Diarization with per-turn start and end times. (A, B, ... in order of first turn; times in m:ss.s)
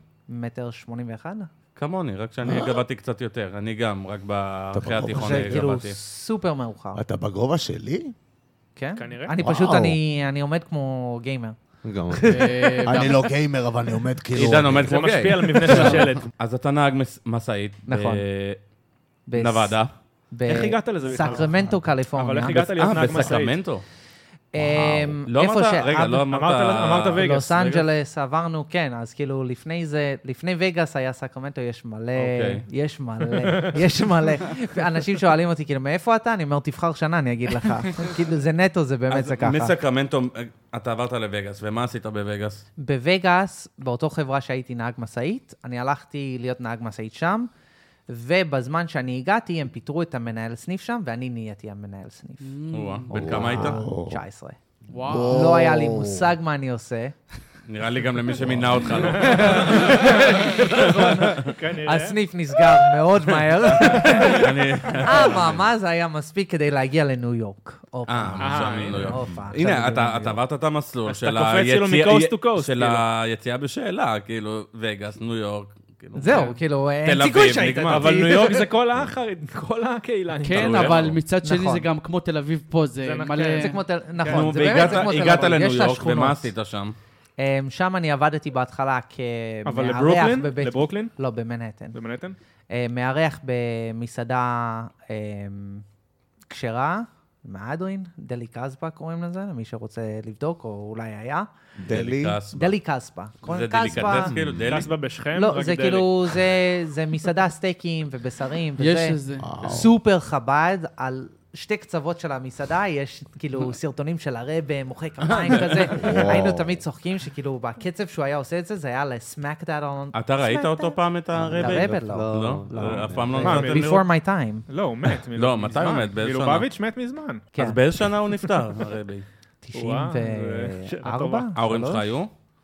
0:00.3-0:01.5 A
0:01.8-0:06.0 B
0:02.4-0:02.8 C
0:04.7-0:05.7 C
0:05.1-0:07.0 A
0:06.9-0:08.1 C
0:08.8-0:11.6 A
0:09.0-0:09.3 D
0:09.4-0:10.0 C
0:11.8-0:16.1 C
0:12.2-0:12.4 A
0:12.2-0:13.3 E
0:14.3-0:18.6 B
0:14.8-0:16.2 D
0:17.9-0:18.2 A
0:19.3-0:19.8 A
0:19.3-0:19.9 B
0:20.3-0:23.2 A
0:20.5-0:23.6 D
0:21.3-0:21.8 C
0:22.4-0:23.8 B
0:24.5-0:26.3 A
0:24.6-0:25.2 C
0:25.3-0:27.8 B
0:26.3-0:27.7 D
0:27.2-0:39.8 A
0:32.2-0:32.6 B
0:33.4-0:33.8 D
0:39.1-0:42.6 B
0:42.8-0:47.5 A
0:48.1-0:52.5 A
0:52.4-0:53.1 E
0:52.7-0:53.8 B
0:53.1-0:54.2 C
0:53.2-0:54.6 A
0:54.9-0:55.5 E
0:54.9-0:56.3 C
0:55.2-0:57.2 A
0:57.7-1:00.7 B
0:58.4-0:59.3 C
0:59.1-1:02.2 D
0:59.2-1:10.4 A
1:03.6-1:05.6 B
1:03.8-1:04.1 D
1:08.1-1:16.5 B
1:08.4-1:09.1 D
1:11.1-1:13.0 D
1:16.1-1:18.7 A
1:16.2-1:16.5 D
1:17.0-1:18.3 B
1:17.8-1:21.1 D
1:20.4-1:23.8 E
1:20.5-1:21.2 B
1:21.4-1:21.9 A
1:23.0-1:25.3 D
1:23.6-1:26.5 A
1:24.2-1:27.0 B
1:27.4-1:32.0 A
1:29.6-1:31.1 D
1:31.9-1:32.4 D
1:32.7-1:35.8 A
1:36.5-1:41.5 A
1:41.8-1:42.4 C
1:41.9-1:42.7 B
1:42.5-1:44.3 A
1:43.4-1:44.9 B
1:44.0-1:44.8 C
1:44.7-1:46.1 D
1:45.3-2:01.0 A
1:48.8-1:49.5 E
1:49.4-1:49.9 C
1:55.2-1:56.1 B
1:55.9-1:56.8 C
2:00.1-2:04.0 B
2:01.3-2:03.6 C
2:01.5-2:04.6 A
2:03.4-2:03.9 D
2:04.7-2:07.4 D
2:05.3-2:06.7 B
2:07.5-2:07.8 A
2:07.6-2:09.2 B
2:09.6-2:12.1 A
2:09.7-2:11.5 D
2:11.5-2:12.3 B